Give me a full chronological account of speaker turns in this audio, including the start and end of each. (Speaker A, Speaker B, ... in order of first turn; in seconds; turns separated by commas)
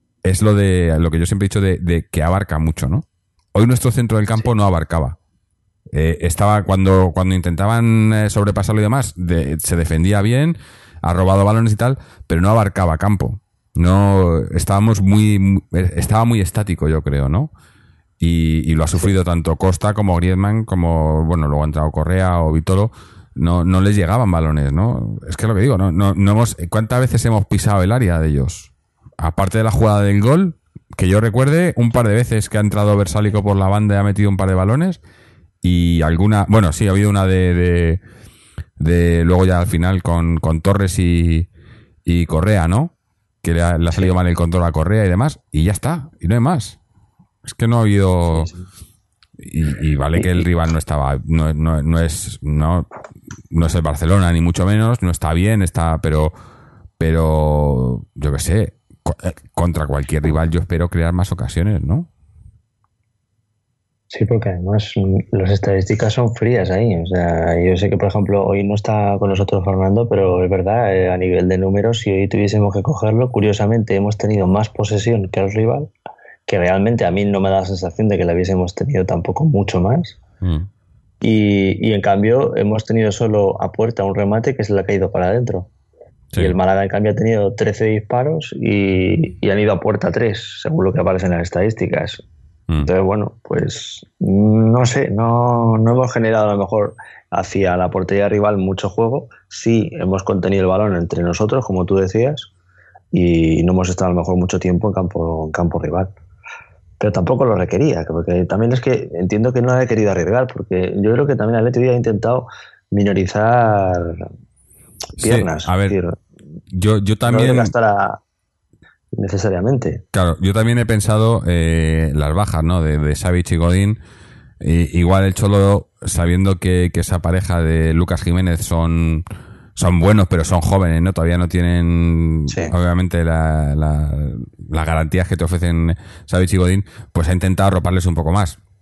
Speaker A: 0.2-5.2, Speaker A: 5.9-17.5, Speaker A: 18.2-35.0, Speaker A: 35.6-38.0, Speaker A: 38.8-41.5, Speaker A: 42.1-46.8, Speaker A: 47.5-48.5, Speaker B: 48.3-48.6, Speaker A: 49.4-52.9, Speaker A: 53.5-56.3, Speaker A: 57.0-62.1, Speaker B: 64.1-75.9, Speaker B: 76.5-80.2, Speaker A: 80.4-80.7, Speaker B: 81.2-85.7, Speaker B: 86.4-92.2, Speaker B: 92.8-102.5, Speaker B: 103.1-106.1, Speaker B: 107.0-114.2, Speaker B: 115.2-116.2, Speaker A: 115.2-116.0, Speaker A: 116.7-117.7, Speaker B: 117.2-118.2, Speaker B: 119.1-120.0, Speaker A: 120.1-124.0, Speaker A: 124.6-129.2, Speaker A: 129.8-138.6